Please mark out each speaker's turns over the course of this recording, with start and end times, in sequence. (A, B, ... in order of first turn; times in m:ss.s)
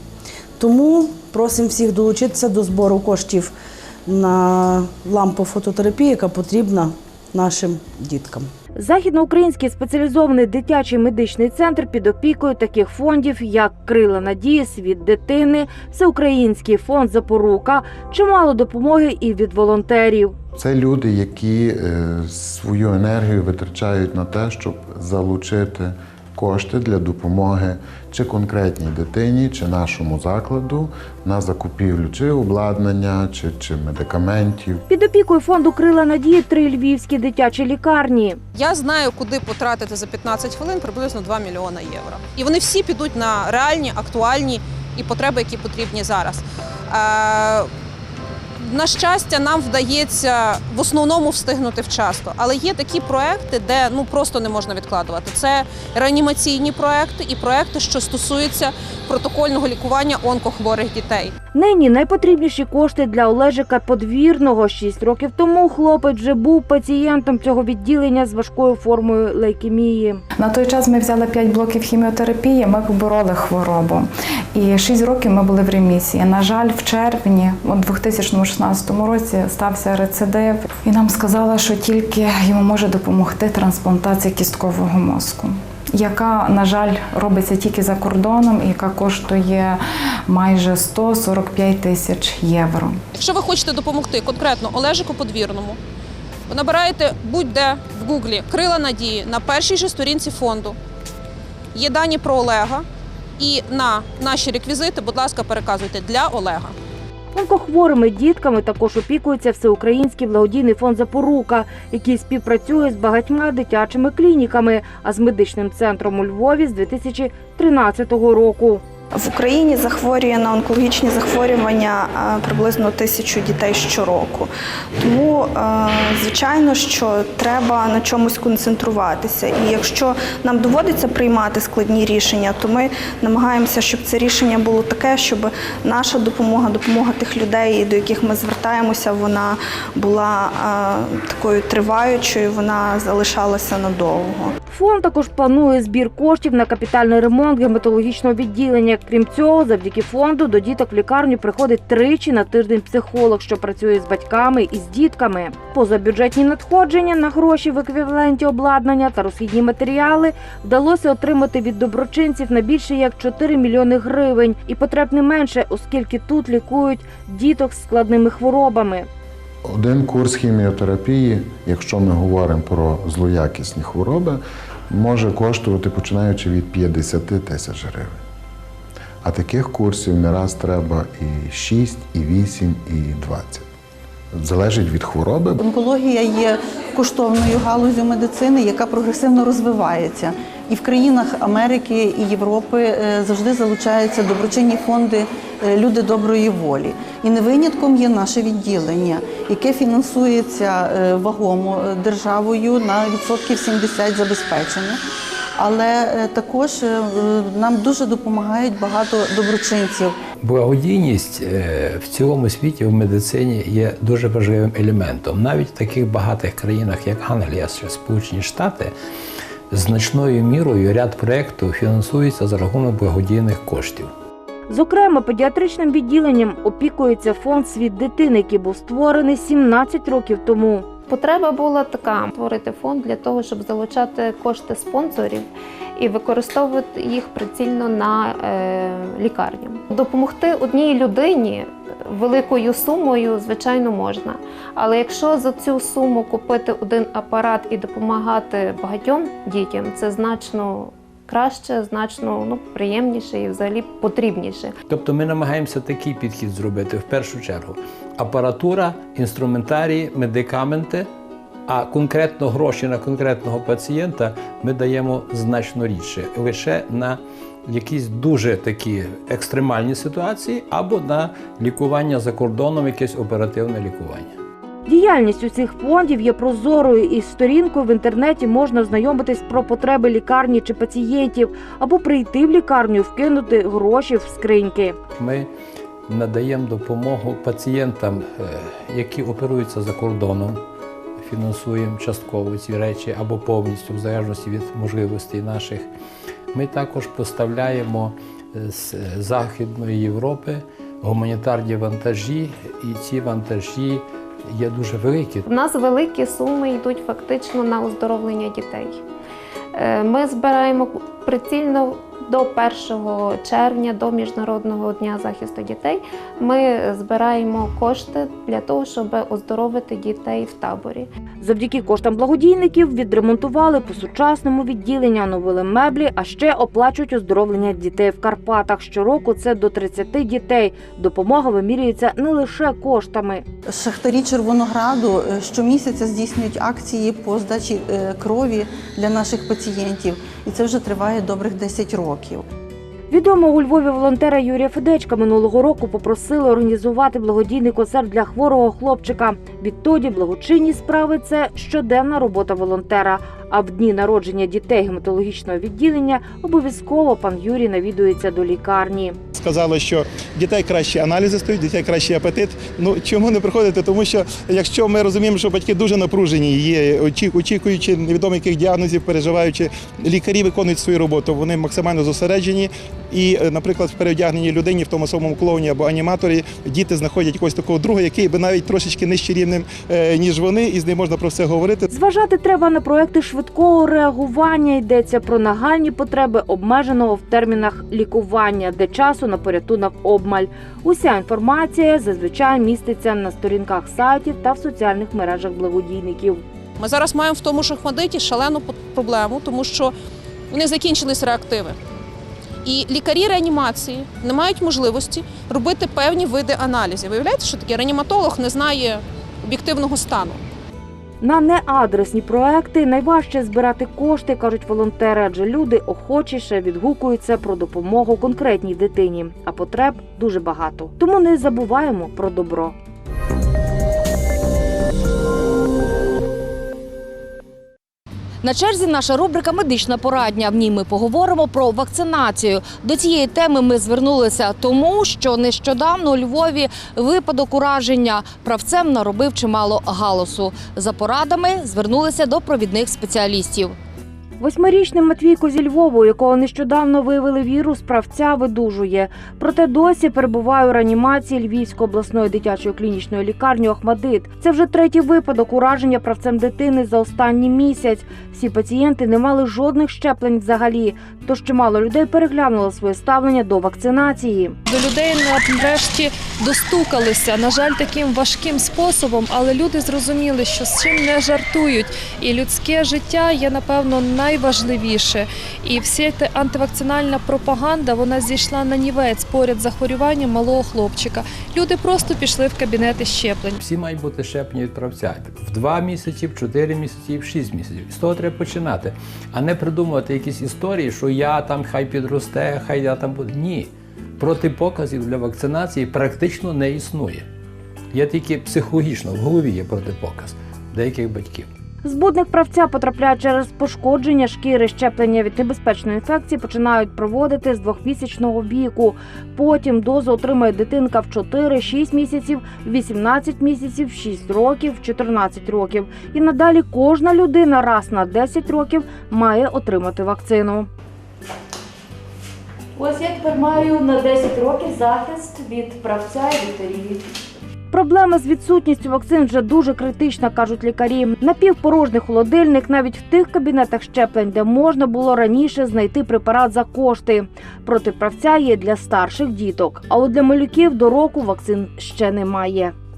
0:00.6-0:03.5 A
0:04.1-0:08.5 A
0:08.8-0:20.3 B
0:20.5-0:34.8 C
0:34.9-0:38.4 B
0:38.5-0:47.7 D
0:48.6-1:01.3 D
1:01.5-1:10.2 B
1:10.4-1:29.8 E
1:30.3-1:32.9 E
1:33.2-1:35.8 D
1:36.5-1:40.8 D
1:41.7-1:42.8 D
1:43.4-1:46.7 D
1:47.3-1:58.8 B
1:59.1-2:24.5 F
2:24.7-2:49.1 B
2:49.6-2:58.2 C
2:59.2-3:03.6 C
3:04.3-3:05.6 C
3:05.6-3:25.0 G
3:25.6-3:30.1 G
3:30.4-3:38.9 H
3:39.7-3:44.1 H
3:44.7-3:50.8 B
3:51.1-4:14.7 I
4:14.9-4:21.1 H
4:21.7-4:34.3 H
4:34.8-4:45.0 B
4:45.2-4:45.5 H
4:46.1-4:50.6 H
4:51.2-4:55.9 H
4:56.5-5:05.4 H
5:05.4-5:09.0 I
5:09.7-5:21.1 I
5:21.4-5:33.4 B
5:33.6-5:42.4 G
5:43.1-5:59.2 B
5:59.4-6:21.9 J
6:21.9-6:36.4 B
6:36.8-6:39.9 D
6:40.5-6:41.8 D
6:42.6-6:50.4 D
6:51.2-7:02.7 B
7:08.4-7:23.8 B
7:24.4-7:44.6 B
7:44.6-8:03.6 K
8:03.6-8:17.2 H
8:17.9-8:21.5 H
8:21.8-8:40.7 B
8:42.8-8:47.0 B
8:47.7-9:02.7 B